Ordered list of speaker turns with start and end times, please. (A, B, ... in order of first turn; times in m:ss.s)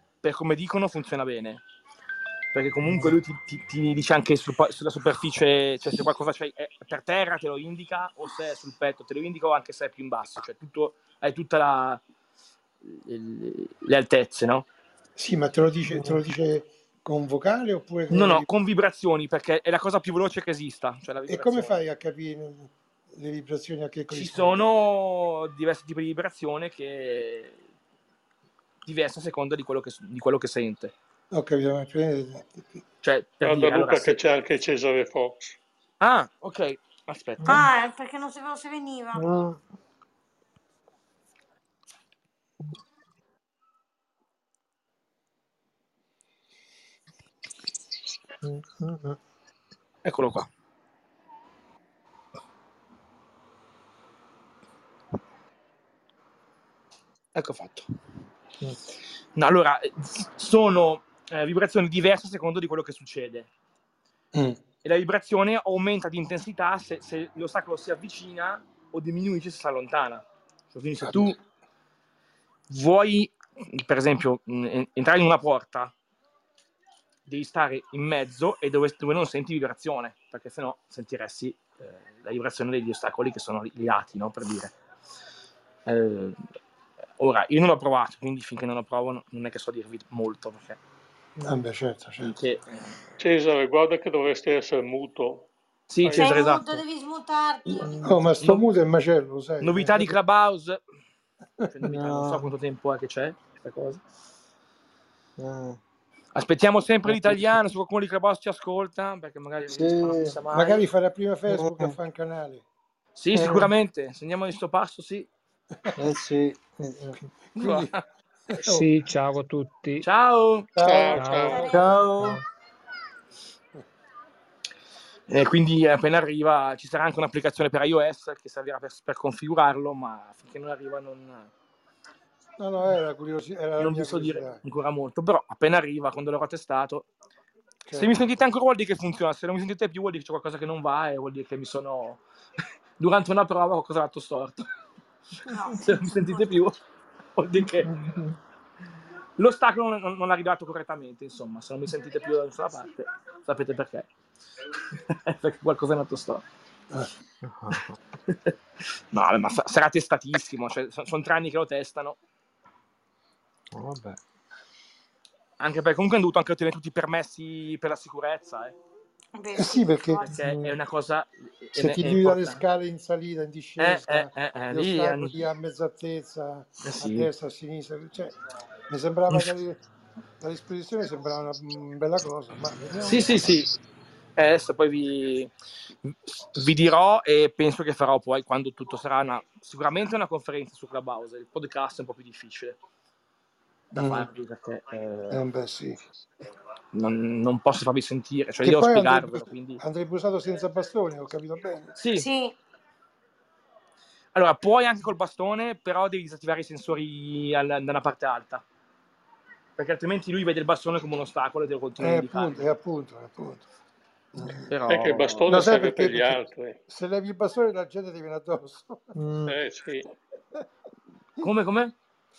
0:00.2-0:01.6 A
0:02.5-0:12.0 A
0:12.8-0:14.7 A
0:15.2-0:18.5 B
0:15.9-0:16.2 C
0:18.1-0:21.8 A
0:21.3-0:24.6 B
0:24.1-0:27.6 A
0:28.8-0:30.9 A
0:31.3-0:32.6 B
0:33.0-0:34.2 A
0:33.4-0:35.6 D
0:36.0-0:37.7 A
0:37.4-0:37.7 C
0:37.5-0:39.3 E
0:39.1-0:39.6 C
0:48.4-0:49.2 C
0:50.0-0:50.5 A
0:57.4-0:57.9 A
0:59.4-1:03.5 A
1:04.3-1:04.6 B
1:04.8-1:11.4 A
1:11.0-1:11.3 B
1:12.7-1:15.9 A
1:17.3-1:24.7 A
1:25.9-1:26.4 A
1:27.2-1:30.8 A
1:31.4-1:32.4 B
1:32.2-1:33.0 A
1:33.2-1:35.5 D
1:35.9-1:36.8 A
1:36.0-1:36.6 D
1:36.1-1:37.9 E
1:37.8-1:38.2 C
1:38.0-1:40.1 B
1:39.6-1:40.8 A
1:41.6-1:44.0 A
1:41.8-1:42.5 C
1:45.4-1:45.8 C
1:46.3-1:50.8 A
1:47.1-1:47.5 C
1:49.7-1:50.4 C
1:50.5-1:52.6 B
1:51.5-1:52.0 C
1:53.2-1:55.3 A
1:53.4-1:53.7 C
1:56.0-1:57.2 C
1:57.6-1:57.9 B
1:57.6-1:58.0 A
1:58.5-1:58.9 B
1:58.6-2:00.1 F
2:00.0-2:00.7 A
2:00.8-2:01.5 B
2:00.8-2:01.8 D
2:01.2-2:02.4 F
2:01.4-2:02.1 E
2:01.7-2:02.4 C
2:05.3-2:11.5 A
2:12.6-2:14.6 B
2:13.8-2:17.1 A
2:17.8-2:18.1 B
2:17.9-2:22.2 A
2:23.0-2:24.7 A
2:25.5-2:26.6 E
2:25.5-2:26.8 A
2:27.4-2:27.9 A
2:27.8-2:28.4 C
2:29.4-2:34.1 A
2:34.9-2:36.4 A
2:37.4-2:38.0 C
2:38.3-2:38.6 A
2:39.1-2:42.2 A
2:43.7-2:44.2 C
2:45.6-2:48.8 A
2:49.4-2:50.3 E
2:49.6-2:50.3 B
2:50.2-2:52.6 A
2:50.4-2:50.8 C
2:51.8-2:58.4 B
2:53.8-2:55.4 A
2:56.8-2:57.3 A
2:58.9-2:59.8 B
3:00.4-3:03.6 B
3:03.0-3:03.7 A
3:04.4-3:05.5 A
3:06.0-3:12.8 A
3:13.9-3:14.3 B
3:14.0-3:15.4 A
3:15.3-3:16.0 B
3:16.9-3:19.8 A
3:18.6-3:22.0 B
3:22.0-3:22.3 A
3:22.2-3:22.6 E
3:24.4-3:28.6 A
3:29.8-3:32.7 A
3:32.0-3:33.7 B
3:34.3-3:34.7 B
3:34.7-3:35.6 A
3:34.9-3:36.8 D
3:35.5-3:39.1 B
3:39.2-3:39.6 C
3:39.5-3:40.1 D
3:41.4-3:41.9 A